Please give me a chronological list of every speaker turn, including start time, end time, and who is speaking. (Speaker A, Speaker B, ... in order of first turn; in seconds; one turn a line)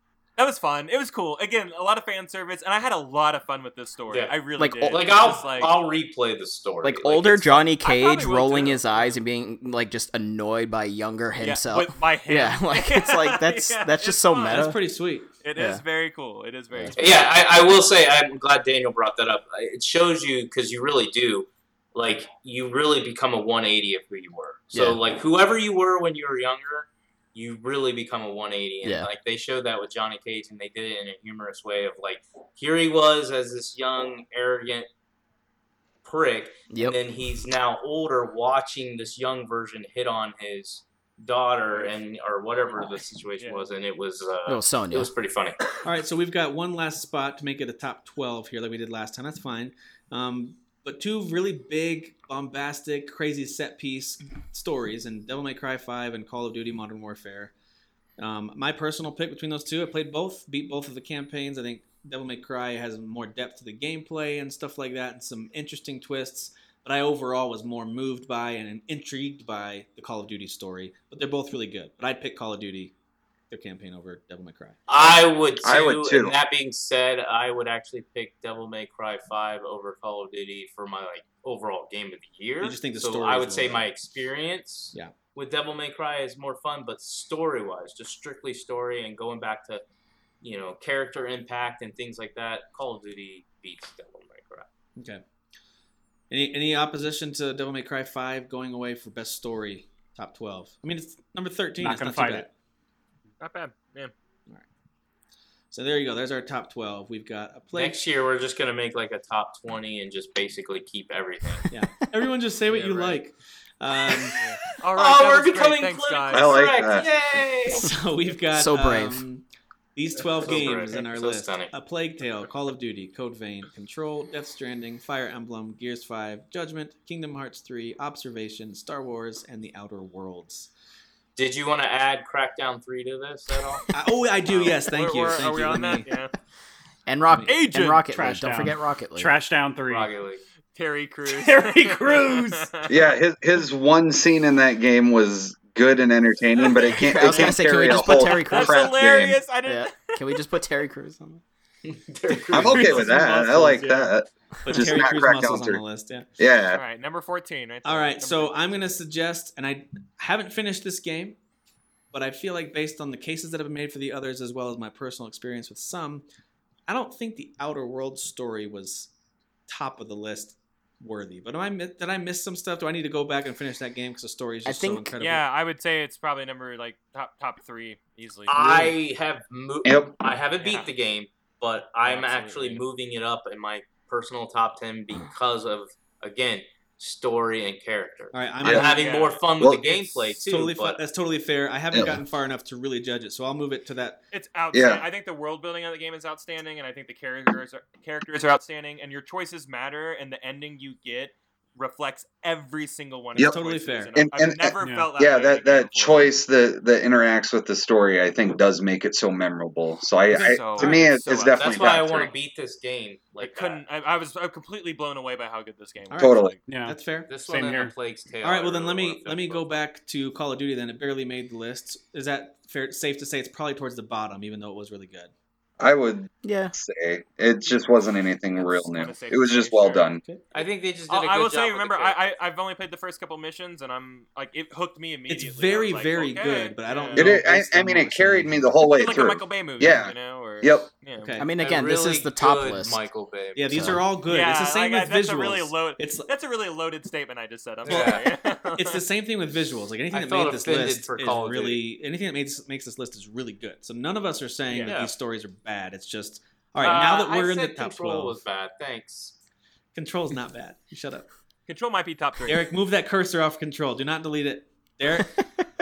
Speaker A: 0.4-5.8
Speaker B: 4.1-7.7
Speaker C: 4.6-5.1
Speaker C: 6.8-14.8
Speaker A: 7.8-9.2
Speaker A: 11.4-14.7
Speaker D: 14.4-15.3
Speaker A: 15.4-17.6
Speaker C: 15.6-15.8
Speaker C: 16.7-17.0
Speaker B: 16.9-34.9
Speaker C: 24.7-25.0
Speaker C: 28.8-29.1
Speaker B: 36.0-45.7
Speaker C: 36.7-37.0
Speaker A: 43.4-43.7
Speaker C: 44.5-45.1
Speaker D: 45.8-57.5
Speaker D: 58.2-72.9
Speaker D: 73.5-74.8
Speaker B: 74.9-89.8
Speaker E: 75.6-76.3
Speaker D: 82.6-83.8
Speaker B: 90.4-94.7
Speaker D: 95.0-95.2
Speaker D: 96.3-102.5
Speaker F: 101.8-102.5
Speaker A: 103.4-104.1
Speaker D: 105.7-108.0
Speaker B: 107.8-111.7
Speaker D: 111.7-114.4
Speaker A: 112.7-113.2
Speaker A: 114.4-117.0
Speaker B: 115.0-117.9
Speaker E: 116.3-117.1
Speaker D: 117.7-119.4
Speaker C: 118.5-119.2
Speaker D: 120.0-130.7
Speaker B: 120.4-121.7
Speaker B: 131.4-133.9
Speaker D: 133.9-136.1
Speaker A: 134.5-136.3
Speaker C: 137.1-139.3
Speaker A: 137.4-138.0
Speaker F: 138.1-140.1
Speaker B: 139.9-140.4
Speaker A: 140.7-143.0
Speaker F: 141.3-142.7
Speaker E: 142.9-149.4
Speaker A: 146.6-147.3
Speaker C: 146.7-149.0
Speaker A: 148.1-150.4
Speaker C: 149.7-151.4
Speaker B: 152.1-153.2
Speaker E: 152.5-155.8
Speaker D: 152.7-153.8
Speaker F: 152.7-154.1
Speaker D: 154.6-156.3
Speaker E: 156.4-156.8
Speaker A: 156.7-159.0
Speaker D: 157.8-161.4
Speaker D: 162.1-166.2
Speaker D: 166.9-169.1
Speaker D: 169.7-175.4
Speaker C: 174.7-175.1
Speaker A: 175.2-178.9
Speaker B: 178.5-191.0
Speaker E: 179.8-180.2
Speaker A: 180.6-180.9
Speaker A: 182.1-182.8
Speaker D: 188.3-189.1
Speaker A: 188.8-189.4
Speaker D: 190.3-194.2
Speaker A: 194.3-206.3
Speaker E: 194.7-195.0
Speaker D: 203.4-204.1
Speaker E: 204.2-212.3
Speaker F: 204.8-205.1
Speaker A: 210.3-211.8
Speaker B: 211.5-213.8
Speaker A: 213.4-216.6
Speaker D: 216.1-217.3
Speaker E: 216.2-216.6
Speaker F: 216.7-217.9
Speaker B: 217.3-219.7
Speaker D: 218.4-225.3
Speaker E: 225.8-230.2
Speaker C: 226.4-226.8
Speaker A: 228.5-237.4
Speaker B: 230.5-232.2
Speaker D: 235.3-238.8
Speaker E: 237.1-240.9
Speaker A: 238.9-241.4
Speaker D: 241.2-241.5
Speaker C: 241.4-243.0
Speaker B: 241.6-244.0
Speaker D: 243.6-246.3
Speaker C: 243.7-244.0
Speaker A: 244.2-249.0
Speaker B: 247.8-248.3
Speaker D: 247.8-258.4
Speaker B: 250.1-251.8
Speaker A: 254.7-255.0
Speaker B: 254.8-255.1
Speaker B: 256.8-259.4
Speaker A: 256.8-257.1
Speaker D: 259.9-261.3
Speaker A: 261.7-262.7
Speaker D: 262.5-265.4